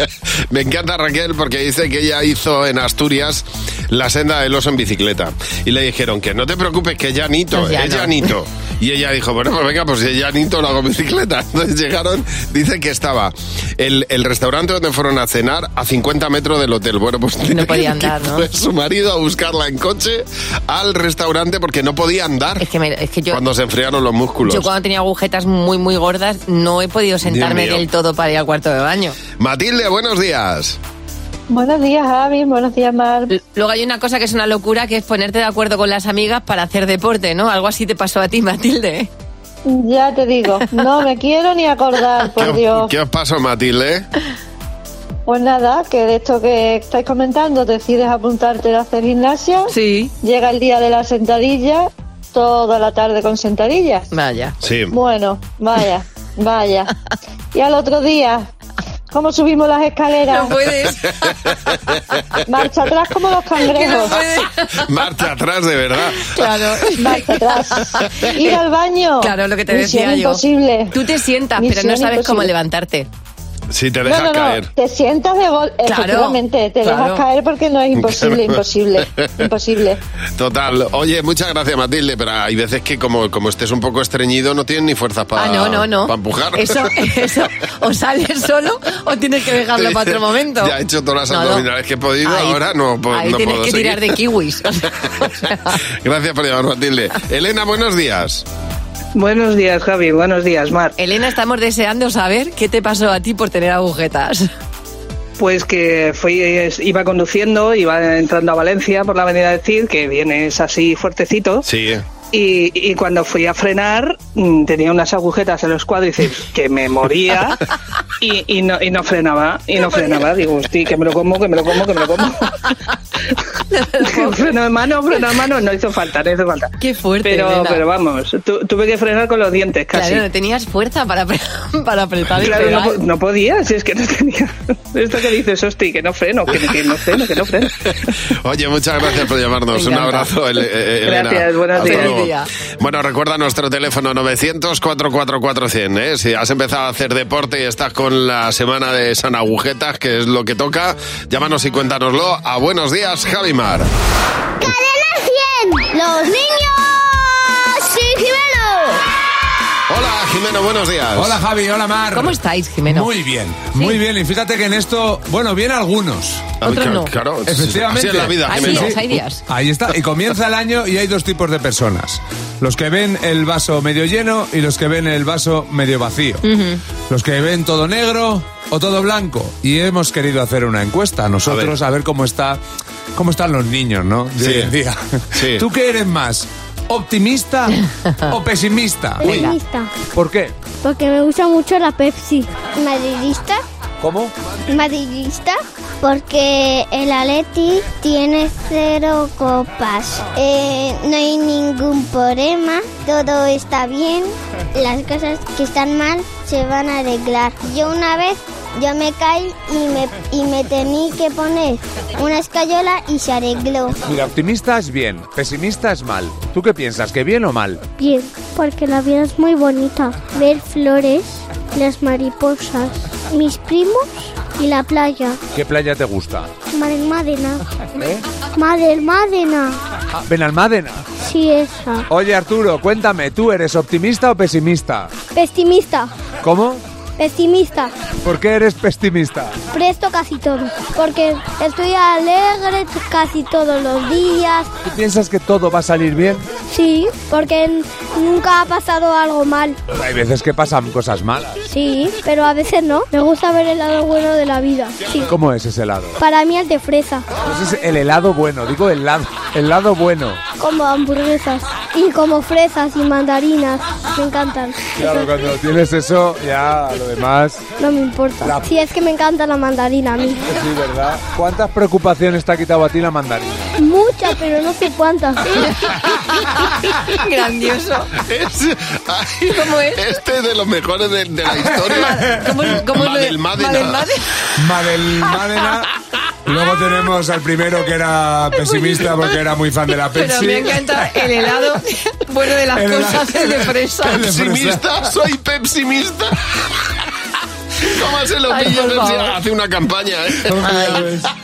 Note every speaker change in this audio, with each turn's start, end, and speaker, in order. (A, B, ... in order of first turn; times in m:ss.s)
0:00.5-0:22.6 A
0:07.5-0:08.3 B
0:17.5-0:18.5 B
0:22.6-0:23.4 B
0:23.3-0:24.7 A
0:24.5-0:29.2 B
0:27.2-0:27.8 A
0:29.4-0:30.8 A
0:31.5-0:33.3 C
0:33.3-0:39.1 B
0:39.7-0:42.9 C
0:42.4-0:44.1 A
0:45.3-0:54.0 C
0:49.7-0:50.1 B
0:54.1-0:54.6 B
0:54.6-0:55.0 A
0:54.9-0:56.9 C
0:57.5-0:58.5 C
0:59.1-1:00.6 C
1:00.3-1:01.5 B
1:02.5-1:04.2 C
1:03.7-1:04.8 B
1:04.8-1:06.3 A
1:06.2-1:08.6 B
1:07.0-1:11.0 C
1:09.2-1:13.1 B
1:11.6-1:12.5 C
1:13.7-1:14.7 A
1:14.1-1:20.0 C
1:15.9-1:17.2 B
1:18.0-1:19.4 A
1:20.4-1:26.9 A
1:25.4-1:30.7 B
1:29.8-1:34.2 A
1:31.3-1:31.7 B
1:32.2-1:35.8 B
1:36.0-1:38.4 A
1:39.2-1:40.9 D
1:41.0-1:44.5 B
1:45.4-1:51.6 D
1:51.6-1:52.0 A
1:52.3-1:57.6 D
1:58.2-2:02.4 D
2:03.7-2:04.5 B
2:04.0-2:06.7 D
2:06.8-2:07.8 B
2:07.2-2:10.2 D
2:09.9-2:13.0 B
2:12.4-2:17.8 D
2:18.4-2:33.9 A
2:19.7-2:20.3 B
2:21.0-2:22.2 D
2:21.8-2:22.5 B
2:34.6-2:39.0 E
2:39.9-2:41.4 A
2:41.2-2:46.6 F
2:42.1-2:43.1 B
2:46.6-2:49.0 A
2:46.6-2:47.1 B
2:47.5-2:56.4 F
2:48.5-2:49.4 B
2:56.4-2:56.8 B
2:57.1-3:02.6 F
3:01.5-3:01.7 A
3:03.2-3:07.8 F
3:04.4-3:04.7 A
3:05.4-3:05.6 A
3:08.3-3:09.4 F
3:09.2-3:09.9 E
3:09.2-3:09.5 B
3:10.1-3:10.5 F
3:10.8-3:13.6 E
3:14.0-3:14.3 F
3:14.7-3:34.0 E
3:34.0-3:37.8 F
3:38.0-3:45.4 E
3:45.5-3:46.5 F
3:46.7-3:47.6 E
3:48.0-3:48.2 F
3:48.6-3:49.8 E
3:50.3-3:51.1 F
3:51.2-3:52.1 E
3:52.1-3:55.1 F
3:55.3-3:56.1 E
3:56.4-3:56.8 F
3:57.2-3:57.9 E
3:58.2-3:59.6 F
3:59.7-4:04.7 E
4:04.8-4:06.5 F
4:06.7-4:09.8 E
4:09.9-4:11.6 F
4:11.7-4:15.3 E
4:15.2-4:16.2 F
4:16.2-4:17.3 E
4:17.4-4:20.4 F
4:20.6-4:25.3 E
4:25.0-4:27.7 F
4:27.8-4:30.6 E
4:28.4-4:28.7 F
4:30.5-4:33.7 F
4:33.8-4:35.7 E
4:35.9-4:38.1 B
4:38.2-4:42.2 A
4:39.5-4:40.0 B
4:41.9-4:44.2 B
4:42.9-4:44.0 A
4:44.6-4:45.9 F
4:46.5-4:51.5 F
4:48.6-4:49.1 B
4:50.2-4:54.2 B
4:52.7-4:54.8 F
4:54.2-4:56.4 A
4:57.8-5:01.0 A
4:58.5-4:59.4 B
5:00.4-5:01.3 F
5:00.6-5:01.1 B